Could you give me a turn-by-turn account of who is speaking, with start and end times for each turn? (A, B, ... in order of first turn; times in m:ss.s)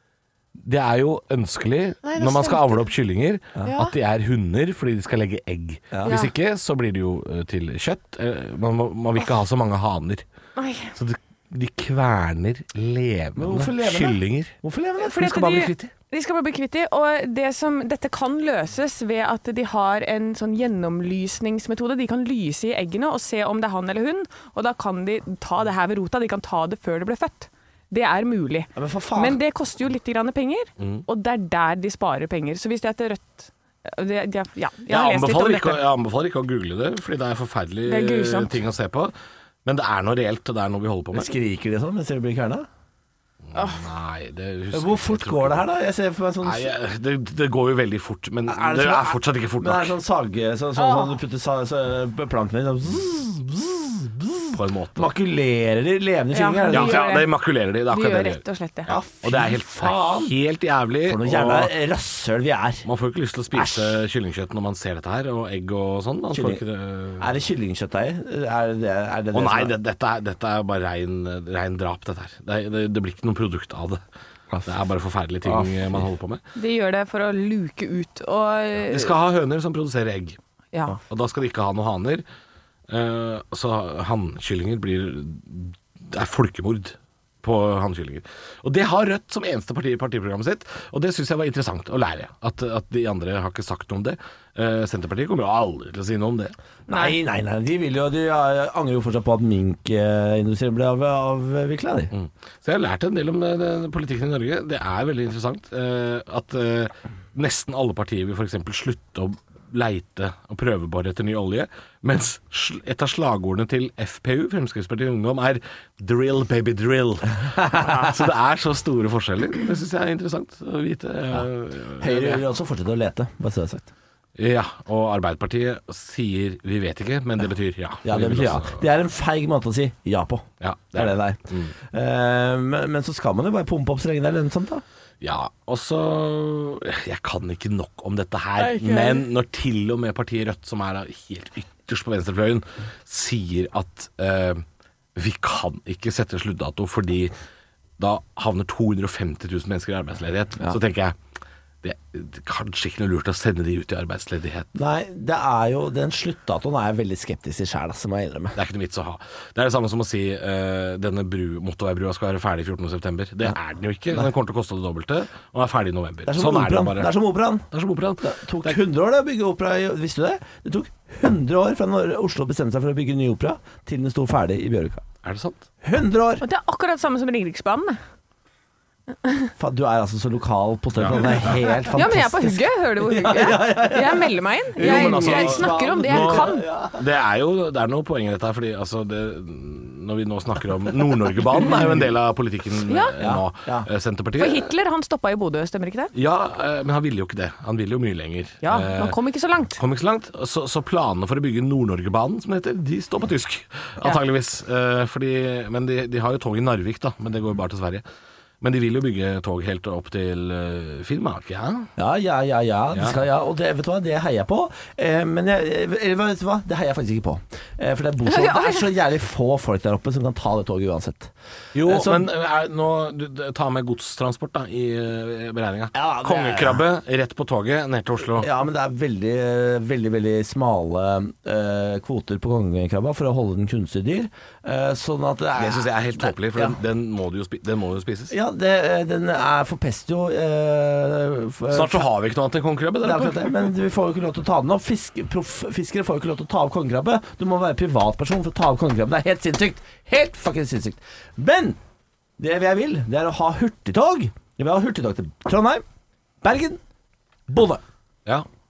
0:00.6-0:10.2 A
0:02.0-0:02.9 B
0:03.6-0:04.0 B
0:05.9-0:06.2 C
0:06.0-0:06.3 B
0:10.6-0:10.9 B
0:10.9-0:14.5 A
0:13.4-0:15.6 C
0:15.0-0:35.8 B
0:15.2-0:15.9 A
0:28.7-0:29.4 C
0:30.8-0:31.0 A
0:34.9-0:39.1 A
0:37.8-0:38.6 B
0:39.6-0:41.3 A
0:41.1-0:42.7 C
0:43.5-0:45.6 A
0:43.6-0:43.8 B
0:44.7-0:46.7 C
0:46.4-0:49.9 A
0:48.5-0:57.1 C
0:50.8-0:51.2 B
0:54.5-0:55.1 A
0:56.3-0:59.0 B
0:56.7-1:01.7 A
0:58.9-1:00.4 C
1:01.0-1:02.9 C
1:02.8-1:07.3 A
1:03.5-1:04.0 C
1:06.3-1:06.6 C
1:07.2-1:09.7 C
1:09.3-1:14.0 A
1:14.6-1:16.4 A
1:15.4-1:16.0 C
1:16.6-1:19.2 B
1:18.8-1:20.4 A
1:20.7-1:21.0 B
1:21.0-1:22.2 A
1:22.9-1:36.5 A
1:36.9-1:37.2 B
1:36.9-1:42.1 C
1:42.1-2:02.4 A
1:57.6-1:58.1 C
2:02.0-2:03.9 C
2:04.4-2:08.8 A
2:08.0-2:14.8 C
2:10.6-2:11.7 A
2:15.2-2:24.6 A
2:18.6-2:19.2 B
2:25.1-2:27.3 A
2:28.0-2:31.2 A
2:31.8-2:34.7 A
2:34.7-2:38.6 C
2:38.6-2:47.1 A
2:46.2-2:47.7 C
2:47.7-2:48.8 A
2:48.2-2:55.1 C
2:55.2-2:55.6 A
2:55.8-2:56.4 C
2:56.4-2:58.0 B
2:59.6-3:07.0 C
3:01.0-3:01.8 A
3:01.8-3:06.6 B
3:04.8-3:14.7 A
3:11.6-3:12.0 C
3:12.8-3:13.2 B
3:13.2-3:13.9 C
3:14.4-3:16.1 B
3:16.1-3:19.2 A
3:18.6-3:19.8 B
3:19.8-3:28.0 A
3:28.6-3:31.9 A
3:32.0-3:41.3 C
3:32.9-3:33.2 A
3:38.2-3:38.9 B
3:41.7-3:48.5 A
3:41.8-3:42.3 C
3:45.9-3:46.8 C
3:48.4-3:56.8 C
3:55.6-3:58.3 A
3:58.3-4:02.1 C
4:01.7-4:03.5 A
4:03.0-4:11.8 C
4:12.4-4:15.8 C
4:16.4-4:16.8 C
4:17.5-4:17.8 C